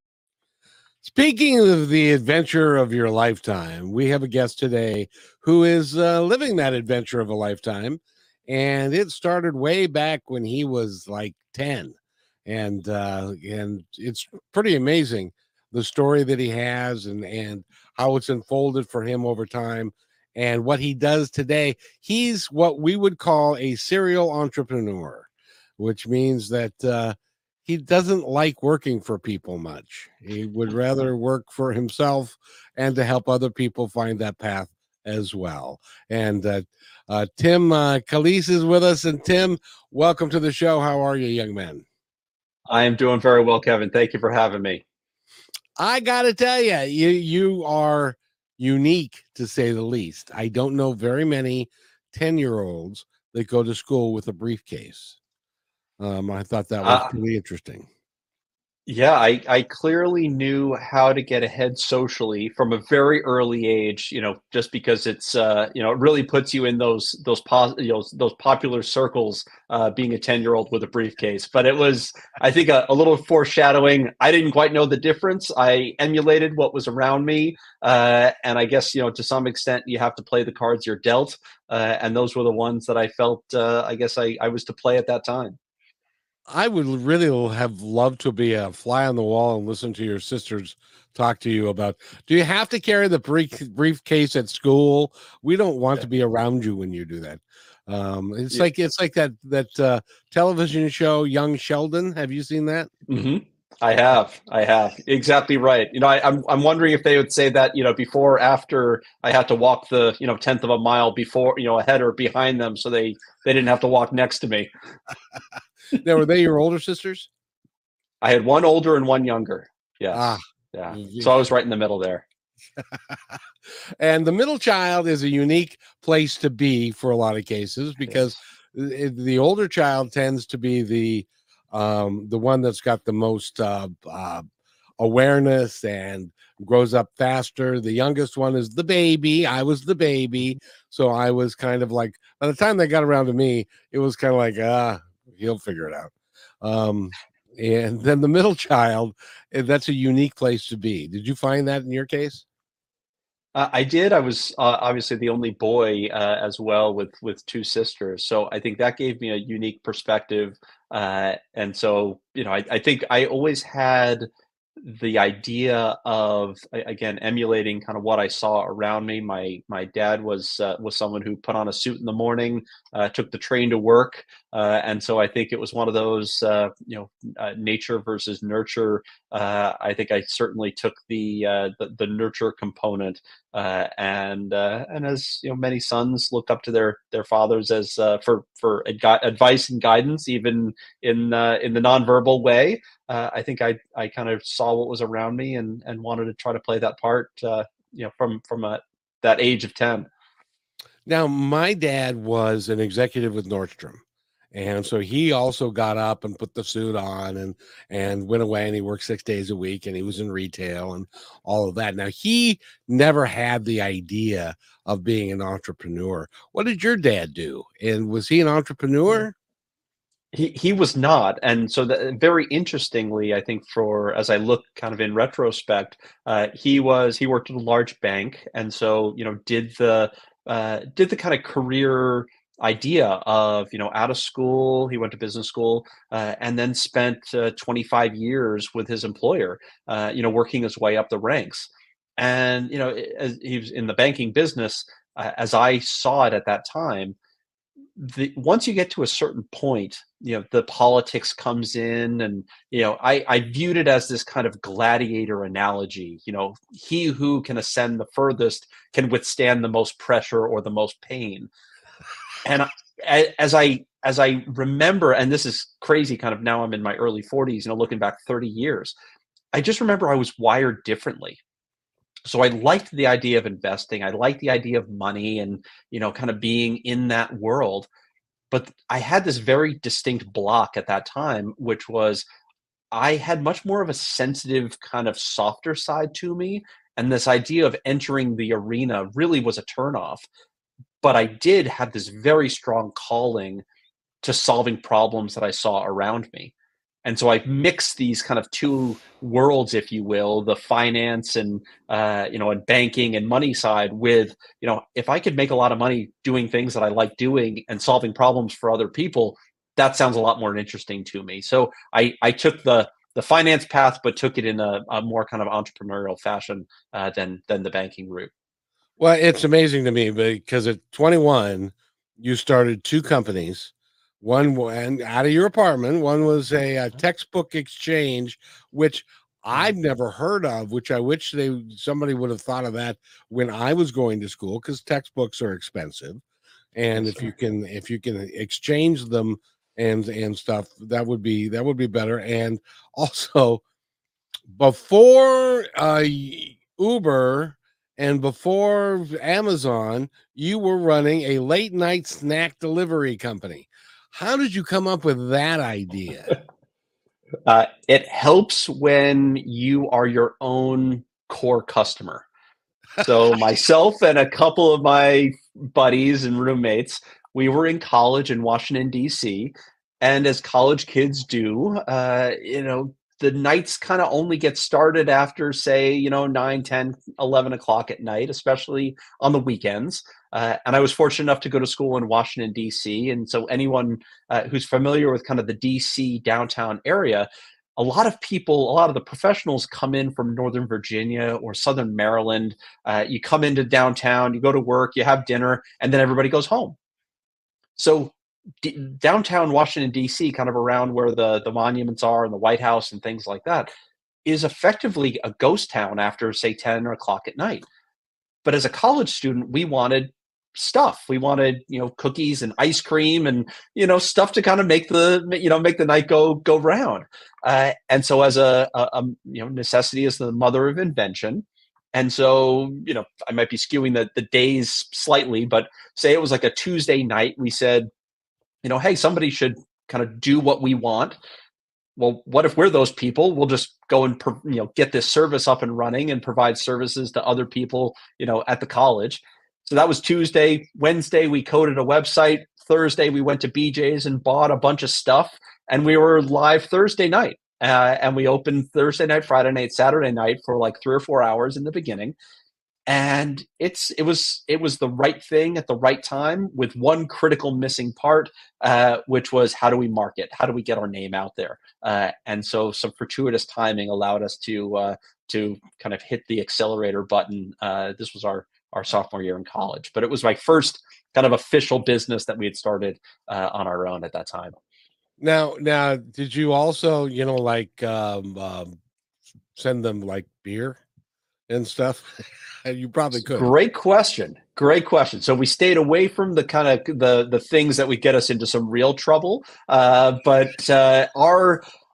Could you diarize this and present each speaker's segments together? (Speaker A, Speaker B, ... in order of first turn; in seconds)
Speaker A: 1.0-11.9, 12.4-27.1, 27.6-41.8, 45.8-55.2, 56.0-57.9, 86.5-102.9, 116.0-117.3, 120.1-121.3, 124.0-134.4, 135.0-152.4, 201.1-204.0, 204.5-219.3, 319.0-336.2, 336.7-343.6, 344.5-356.4, 475.2-478.8, 479.5-480.8, 481.5-482.1, 482.6-483.5
Speaker B: 42.7-44.8, 56.8-57.1, 58.9-85.6, 103.1-114.7, 118.2-122.2, 128.0-128.3, 153.5-164.3, 164.8-200.1, 220.3-247.2, 248.0-261.5, 262.4-268.9, 269.5-271.4, 272.2-277.9, 278.5-282.2, 282.9-290.3, 291.0-293.6, 294.2-296.5, 297.0-318.3, 336.9-337.3, 357.5-362.2, 363.0-396.8, 397.8-403.7, 404.2-407.6, 408.4-427.9, 428.6-431.2, 432.0-452.1, 452.9-474.5, 483.1-491.6